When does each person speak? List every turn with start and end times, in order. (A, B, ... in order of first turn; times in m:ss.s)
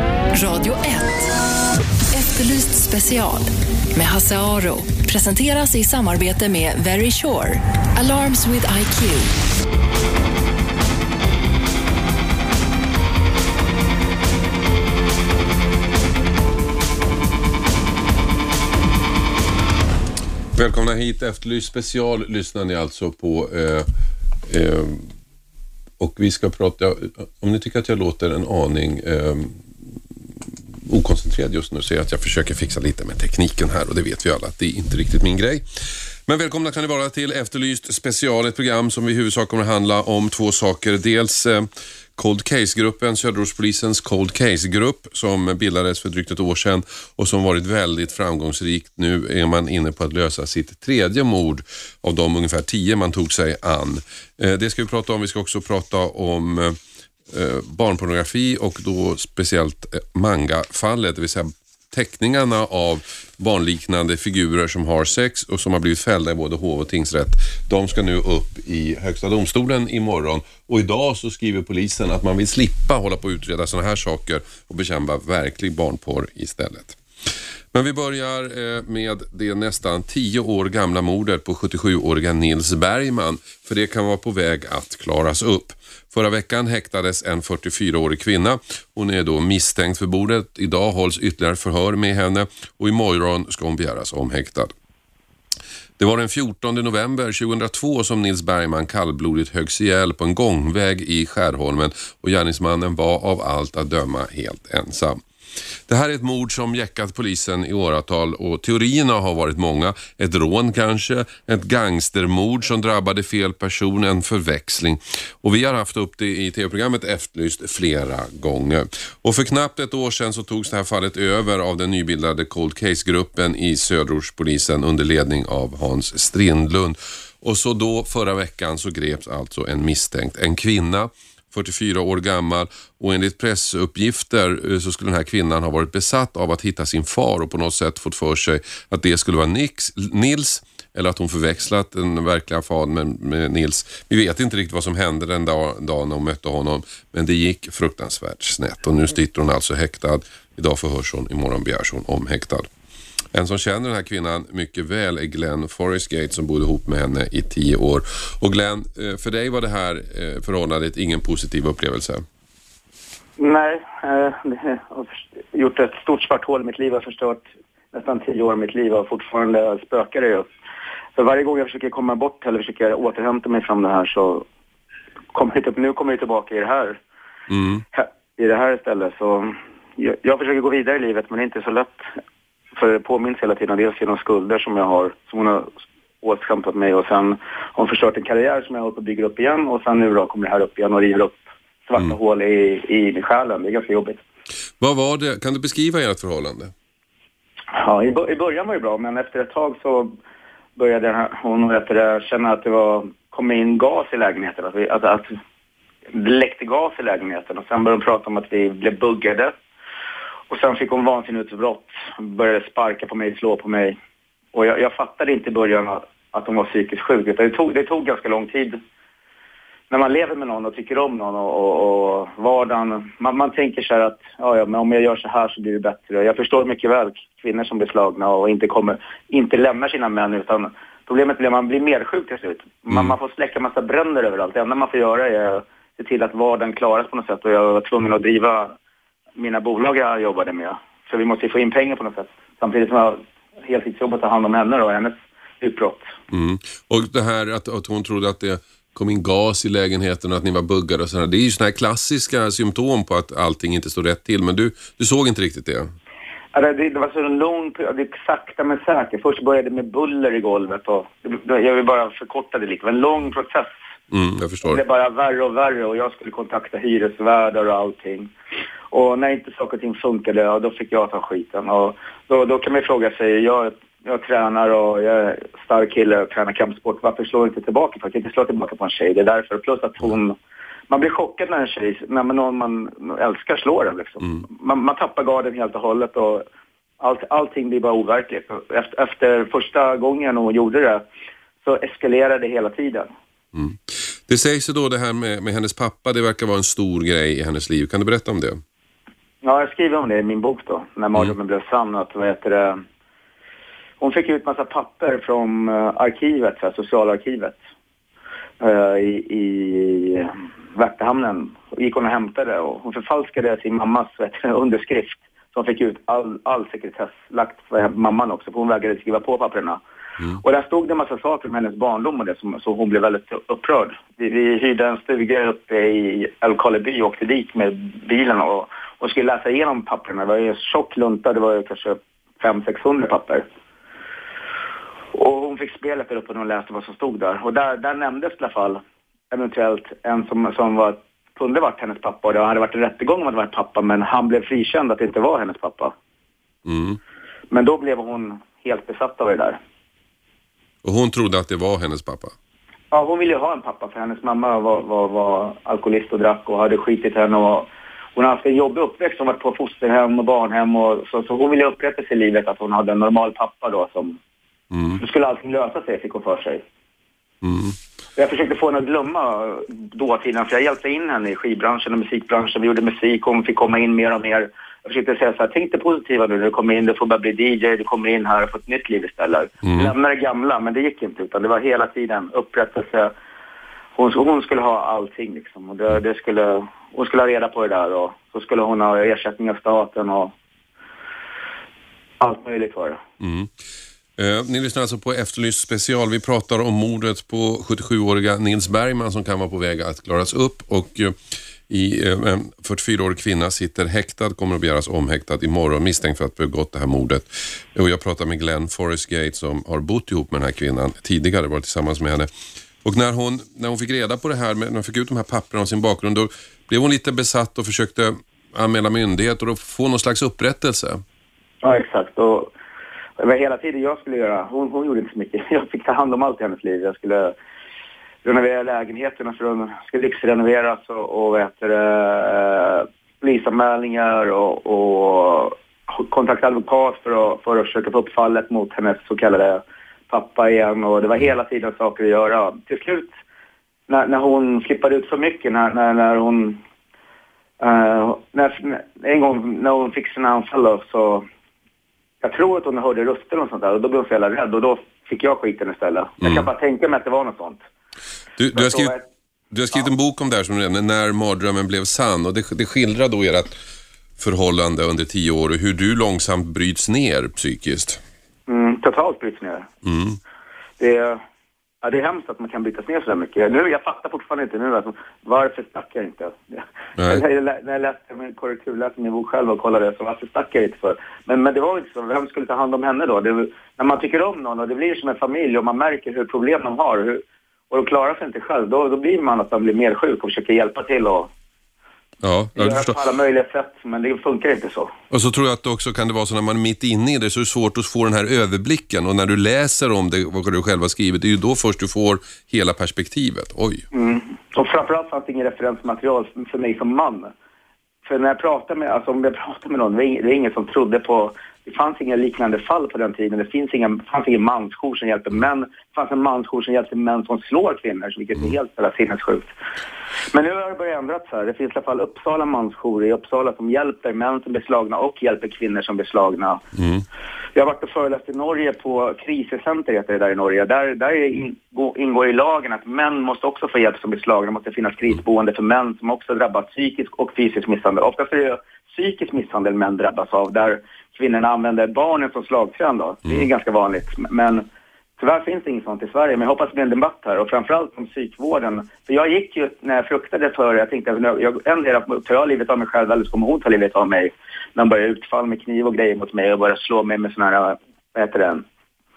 0:00.3-0:01.3 A
0:02.1-0:09.3 A
0:20.5-0:23.9 B
0:24.5-0:25.1 B
0:26.0-0:29.6 B
0:30.8-0:35.6 B
0:36.3-0:56.8 B
0:57.3-1:17.0 B
1:17.7-1:34.7 B
1:36.0-1:45.2 B
1:45.9-2:32.7 B
2:33.3-2:42.2 B
2:43.4-2:50.5 C
2:51.2-2:54.4 C
2:55.3-2:57.0 C
2:57.5-2:57.8 B
2:57.9-3:02.0 C
3:02.7-3:05.7 C
3:06.2-3:14.2 C
3:14.8-3:16.7 B
3:17.7-3:20.1 C
3:20.8-3:25.3 C
3:26.1-3:29.5 C
3:30.5-3:34.0 C
3:34.5-3:38.8 C
3:39.9-3:58.7 C
3:59.4-4:06.1 C
4:06.3-4:15.9 B
4:16.5-4:23.7 C
4:24.1-4:24.8 B
4:24.6-4:28.3 C
4:28.9-4:40.4 C
4:40.9-4:46.4 C
4:47.0-4:51.0 C
4:51.6-4:53.1 C
4:53.5-4:58.6 B
4:59.4-5:02.8 C
5:04.0-5:07.6 C
5:08.6-5:19.8 C
5:20.4-5:33.4 C
5:35.1-5:45.9 C
5:46.6-5:47.0 B
5:47.5-5:49.6 C
5:50.8-5:52.3 B
5:52.9-6:04.2 C
6:04.7-6:05.0 B
6:05.0-6:06.6 C
6:07.4-6:07.8 B
6:08.2-6:23.1 C
6:19.6-6:19.9 B
6:23.9-6:30.3 C
6:32.2-6:33.0 C
6:33.2-6:33.5 B
6:34.2-6:52.3 B
6:52.8-7:01.0 B
7:01.6-7:02.5 C
7:03.2-7:07.3 C
7:08.2-7:23.1 C
7:23.9-7:26.6 C
7:27.6-7:31.3 C
7:32.2-7:37.6 C
7:36.2-7:36.5 B
7:38.4-7:38.9 B
7:38.5-7:39.0 C
7:39.5-7:43.5 B
7:44.2-7:48.0 B
7:48.5-7:49.7 C
7:49.8-7:50.2 B
7:50.8-7:51.2 C
7:51.8-8:11.3 C
8:12.2-8:13.0 B
8:12.6-8:14.9 C
8:15.1-8:23.8 B
8:23.9-8:27.3 C
8:28.0-8:39.5 C
8:40.3-8:46.6 C
8:46.8-8:47.0 B
8:47.5-9:04.6 C
9:05.2-9:18.6 C